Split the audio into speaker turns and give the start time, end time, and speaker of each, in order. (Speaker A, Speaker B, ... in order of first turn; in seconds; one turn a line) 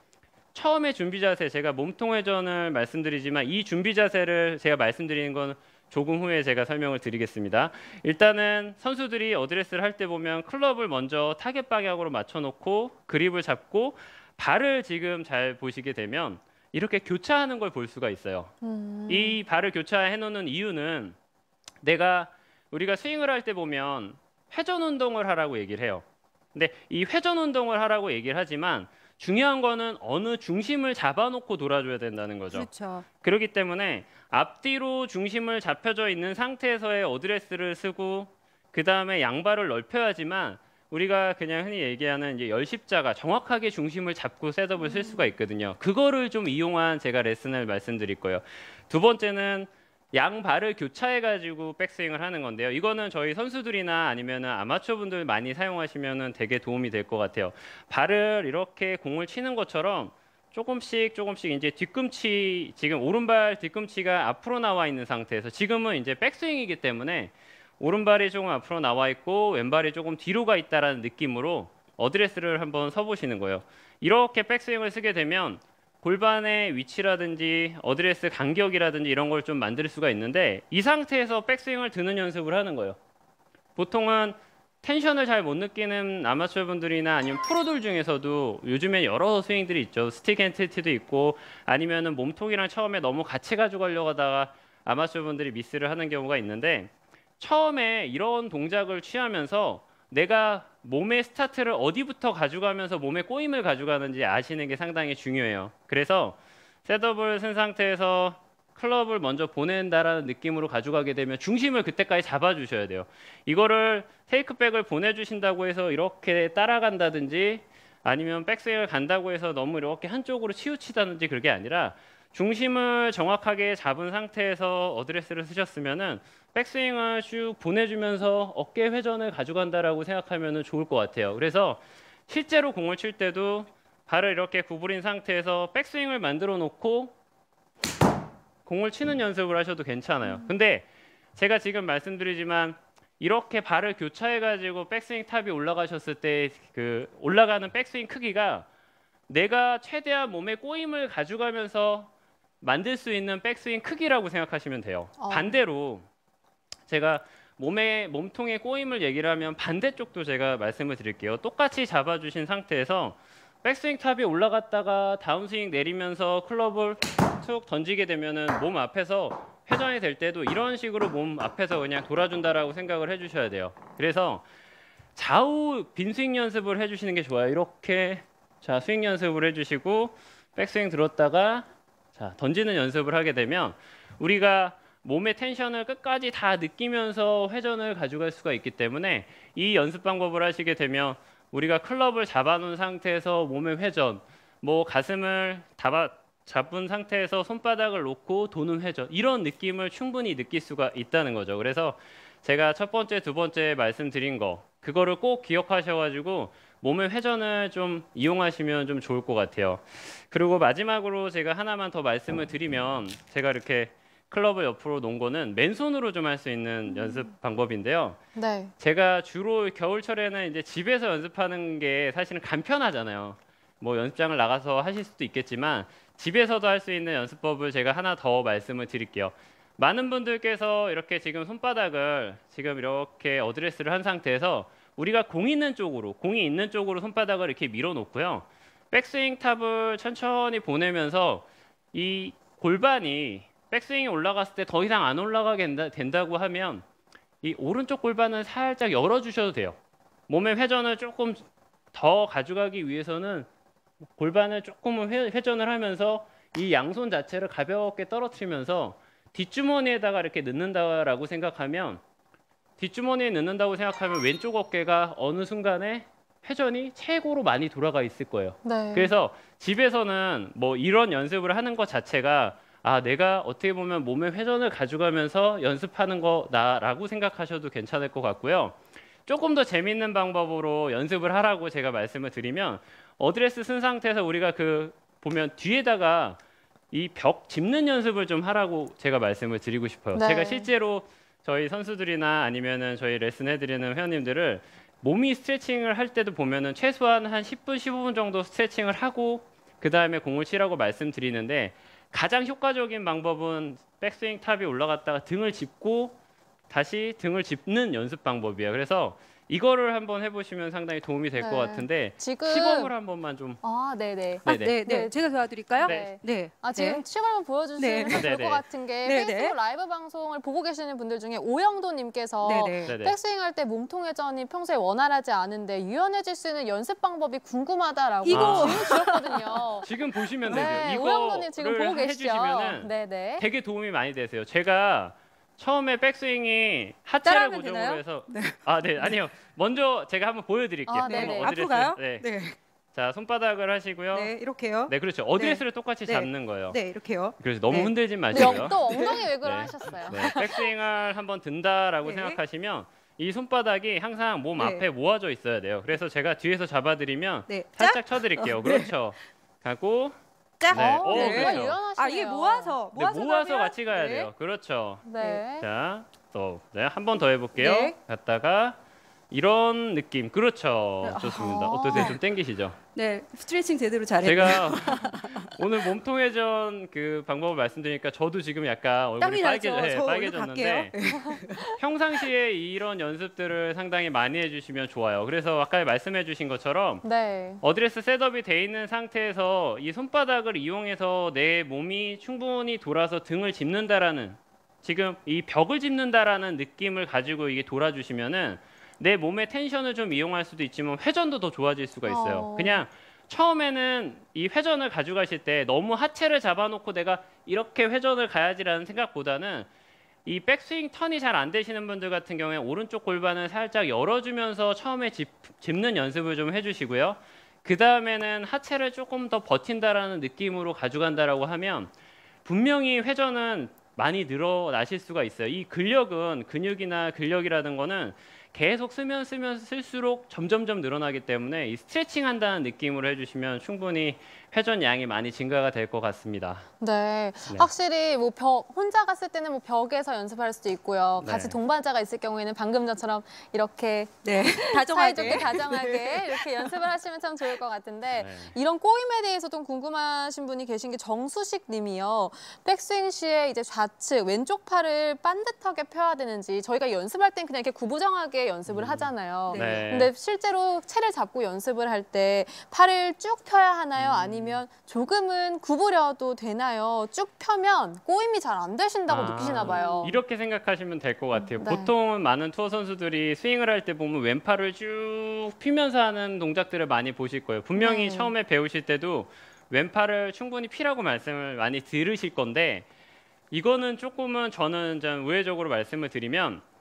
Speaker A: 0.5-18.5
Speaker B: 18.6-19.4
Speaker A: 19.1-21.2
Speaker A: 21.8-32.7
Speaker C: 32.5-33.0
Speaker A: 33.2-83.0
Speaker C: 44.8-45.1
Speaker A: 83.8-137.2
Speaker A: 138.7-148.7
Speaker A: 149.3-156.1
Speaker B: 155.2-155.6
Speaker A: 156.9-174.4
Speaker A: 175.2-218.2
Speaker B: 216.9-217.2
Speaker B: 218.3-218.7
Speaker A: 218.8-246.8
Speaker A: 247.4-249.8
Speaker A: 250.3-253.5
Speaker A: 254.2-262.0
Speaker A: 262.8-286.4
Speaker B: 268.6-269.1
Speaker A: 286.9-306.2
Speaker B: 290.1-290.7
Speaker A: 306.7-313.6
Speaker B: 311.4-312.9
Speaker B: 313.6-315.1
Speaker A: 314.5-314.8
Speaker C: 314.5-317.0
Speaker B: 315.8-329.9
Speaker A: 315.8-316.1
Speaker C: 317.8-318.3
Speaker A: 318.1-318.6
Speaker C: 319.0-319.5
Speaker C: 322.4-322.9
Speaker A: 322.9-323.2
Speaker C: 328.2-329.9
Speaker A: 328.3-328.9
Speaker A: 329.8-342.3
Speaker C: 330.5-330.9
Speaker B: 330.5-333.5
Speaker C: 337.2-339.2
Speaker B: 340.9-341.6
Speaker C: 341.0-342.6
Speaker A: 342.9-344.3
Speaker C: 344.1-349.2
Speaker A: 344.9-346.8
Speaker A: 347.4-348.8
Speaker B: 348.3-350.4
Speaker A: 349.4-360.1
Speaker C: 349.8-350.6
Speaker C: 352.0-352.4
Speaker C: 354.6-354.8
Speaker C: 357.5-358.9
Speaker C: 360.6-364.3
Speaker A: 360.7-361.8
Speaker B: 360.7-362.8
Speaker A: 362.9-368.8
Speaker B: 365.1-365.7
Speaker C: 367.6-368.0
Speaker A: 369.3-372.8
Speaker C: 371.0-372.2
Speaker B: 371.4-372.2
Speaker C: 372.9-375.5
Speaker A: 374.2-380.9
Speaker C: 379.2-381.8
Speaker A: 381.8-387.0
Speaker B: 387.0-387.6
Speaker A: 387.6-409.7
Speaker B: 402.1-402.9
Speaker A: 410.2-421.9
Speaker A: 422.4-436.7
Speaker B: 436.8-470.2
Speaker A: 441.2-441.6
Speaker C: 444.2-446.8
Speaker A: 445.2-445.5
Speaker A: 448.1-448.5
Speaker A: 458.7-460.1
Speaker C: 459.5-459.8
Speaker A: 463.9-464.6
Speaker A: 469.1-482.9
Speaker C: 469.4-470.0
Speaker B: 471.3-471.9
Speaker B: 477.8-478.3
Speaker A: 483.5-486.6